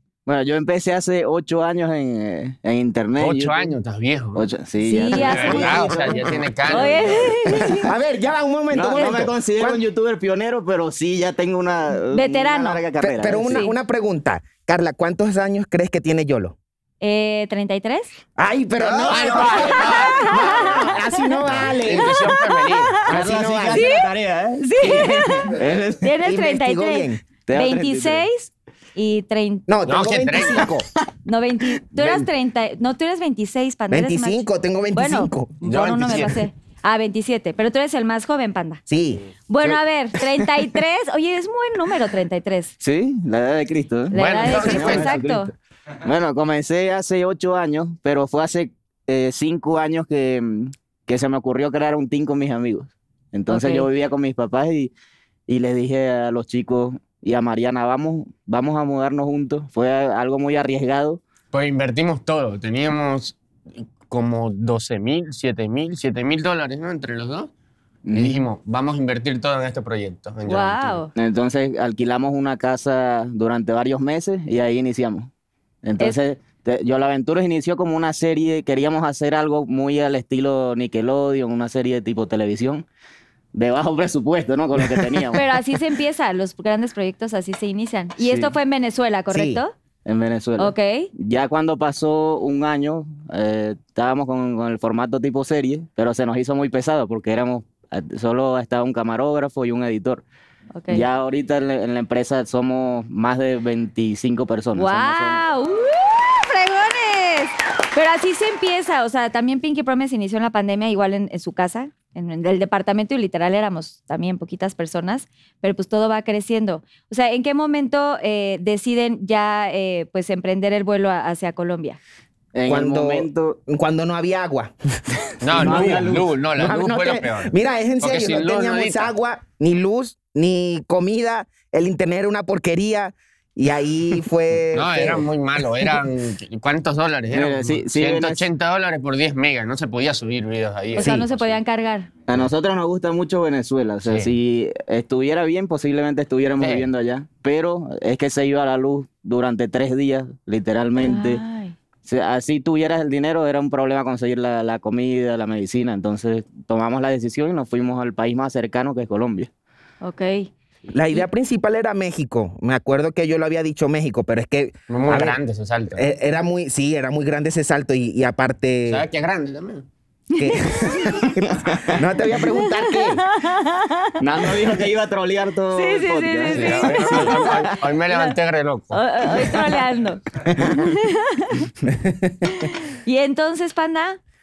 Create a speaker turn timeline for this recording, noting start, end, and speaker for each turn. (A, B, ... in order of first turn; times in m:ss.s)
0:00.2-0:03.8 A
0:03.2-0:04.5 B
0:04.3-0:07.8 A
0:04.8-0:06.0 C
0:05.1-0:07.3 B
0:05.3-0:06.4 D
0:06.7-0:07.9 C
0:07.4-0:09.8 D
0:08.7-0:13.7 A
0:08.9-0:09.2 C
0:12.1-0:12.8 C
0:13.0-0:16.6 D
0:13.4-0:13.7 C
0:17.0-0:18.1 C
0:18.4-0:24.0 D
0:18.8-0:19.7 A
0:19.0-0:20.9 B
0:19.5-0:21.4 C
0:21.4-0:23.0 B
0:22.0-0:23.1 C
0:23.1-0:26.2 A
0:23.7-0:29.7 C
0:26.2-0:27.2 D
0:27.4-0:28.2 A
0:29.7-0:30.9 D
0:29.8-0:30.7 B
0:31.2-0:38.8 C
0:32.0-0:32.3 B
0:33.9-0:36.2 D
0:35.6-0:36.4 B
0:38.9-0:39.2 D
0:39.5-0:42.7 C
0:39.6-0:40.6 A
0:42.8-0:45.5 A
0:44.1-0:45.5 C
0:44.1-0:45.2 B
0:46.0-0:54.9 A
0:53.5-0:53.9 C
0:55.5-1:01.2 A
1:01.5-1:03.4 B
1:03.9-1:07.5 B
1:08.0-1:08.4 A
1:08.1-1:11.0 B
1:10.4-1:11.1 C
1:11.1-1:15.3 A
1:15.8-1:22.8 A
1:23.5-1:25.5 A
1:25.3-1:29.7 C
1:28.2-1:28.5 A
1:29.3-1:29.6 D
1:30.0-1:40.2 A
1:30.6-1:31.1 C
1:40.7-1:41.0 C
1:40.9-1:45.4 A
1:44.7-2:02.0 C
2:02.5-2:03.6 A
2:02.7-2:04.7 D
2:05.4-2:09.1 B
2:05.5-2:15.3 D
2:05.5-2:06.3 A
2:14.7-2:21.6 B
2:17.3-2:18.4 A
2:21.0-2:22.1 C
2:22.3-2:31.4 A
2:24.0-2:24.3 B
2:26.6-2:26.9 B
2:31.0-2:31.7 C
2:32.0-2:39.5 A
2:40.0-2:40.5 C
2:40.9-2:45.4 D
2:44.9-2:46.0 B
2:45.9-2:49.0 D
2:48.9-2:49.8 B
2:50.3-2:51.3 C
2:50.4-2:53.2 D
2:51.6-2:52.0 A
2:52.4-2:54.2 C
2:54.2-2:57.8 A
2:55.7-2:58.4 C
2:56.5-2:59.0 B
2:58.9-3:01.7 C
3:00.4-3:00.8 D
3:01.9-3:02.7 D
3:02.4-3:04.2 C